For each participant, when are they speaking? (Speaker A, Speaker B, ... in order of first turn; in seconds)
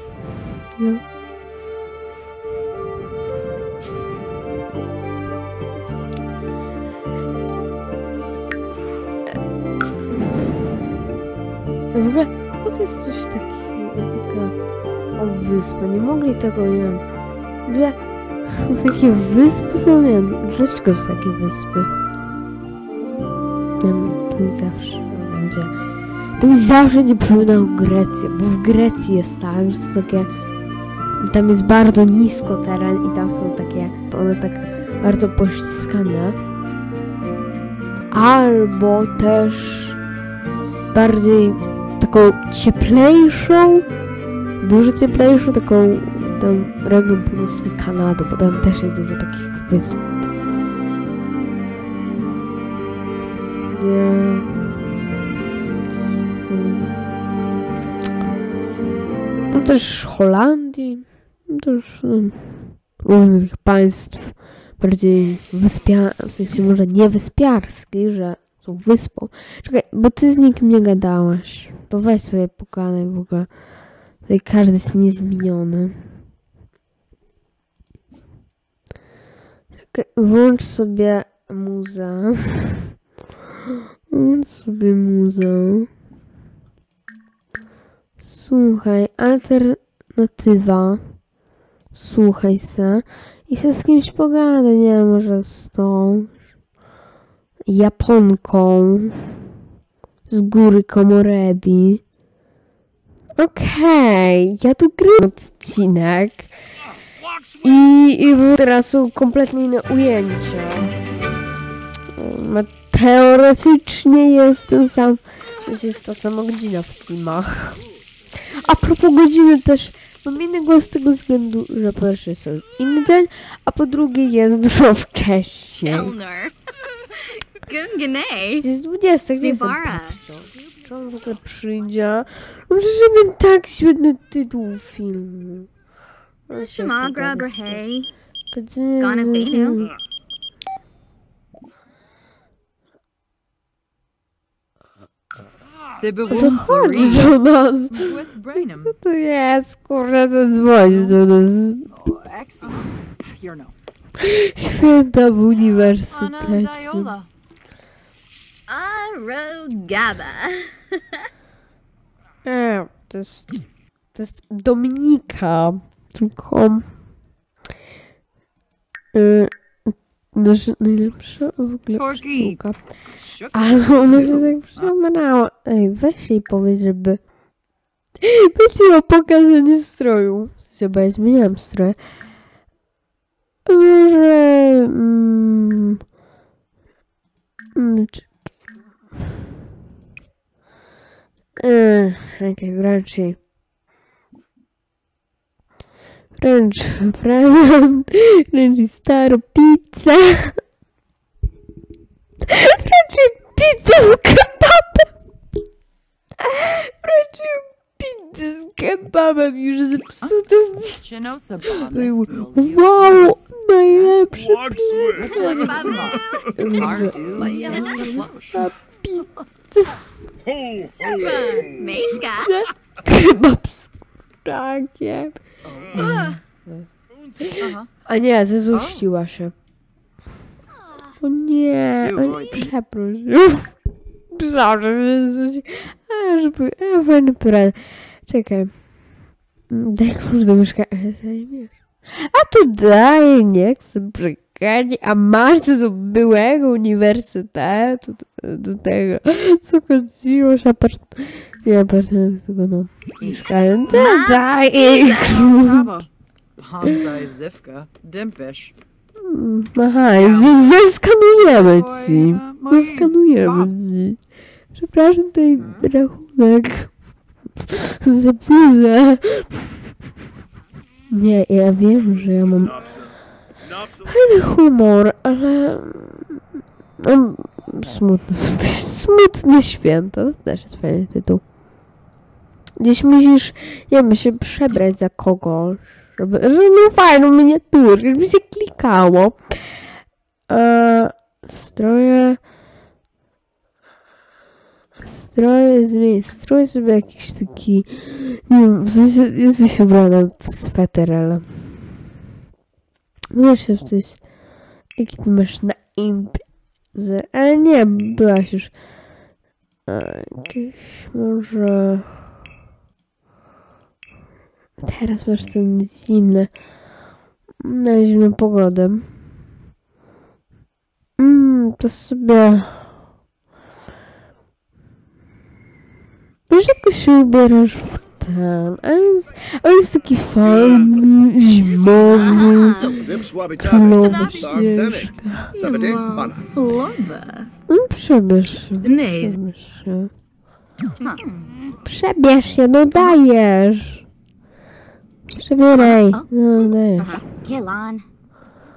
Speaker A: 0.8-1.0, 11.9-14.6, 15.2-17.0, 17.7-21.9, 23.8-25.7, 26.4-30.3, 31.2-36.4, 38.1-40.0, 40.9-43.9, 44.6-50.0, 53.7-54.7, 56.5-57.0, 59.5-73.5, 74.2-76.1, 79.9-82.9, 84.1-85.9, 88.2-91.2, 91.9-96.4, 97.7-99.4, 100.3-102.0, 103.4-106.5, 107.6-111.0, 112.2-117.8, 118.4-126.1, 128.6-135.7, 136.5-137.8, 138.5-139.9, 146.3-148.2, 148.8-151.9, 154.2-157.1, 162.4-163.6, 164.1-166.9, 169.1-172.9, 173.5-177.2, 178.2-182.0, 183.7-186.0, 187.8-188.5, 191.6-193.4, 196.4-200.6, 202.4-205.1, 206.4-211.0, 211.7-215.9, 216.6-220.1, 222.4-225.4, 225.9-226.9, 227.4-229.5, 231.2-233.7, 234.3-238.7, 239.7-256.1, 259.2-264.2, 264.7-267.0, 267.6-269.8, 271.1-272.8, 274.1-276.4, 277.0-281.4, 282.8-289.9, 290.5-292.4, 295.0-301.8, 303.3-304.2, 305.0-308.7, 309.9-312.1, 314.8-316.5, 317.6-319.1, 321.2-322.9, 326.5-335.6, 337.7-340.1, 341.8-344.1, 345.3-347.2
Speaker B: 107.2-107.8, 214.3-218.3, 220.4-222.3, 272.0-274.4, 330.4-331.1, 332.1-335.1
Speaker C: 125.7-126.1, 145.9-147.3, 147.9-149.0, 150.8-151.2, 151.9-153.7, 155.8-157.3, 171.9-174.9, 210.2-214.2, 215.1-218.6, 225.7-226.4, 227.6-227.9, 228.7-229.1, 232.0-232.7, 253.2-253.6, 255.1-256.1, 256.6-258.7, 260.1-260.8, 261.4-263.7, 334.0-334.8, 335.6-336.9, 338.8-339.4
Speaker D: 125.9-126.5, 127.1-128.7, 129.4-130.2, 136.5-138.1, 139.0-139.8, 158.7-161.3, 215.3-216.6, 221.0-222.5, 226.0-226.3, 253.9-255.6, 265.6-265.9, 332.1-332.9, 335.6-336.5, 341.0-341.7, 345.7-346.3, 347.0-348.1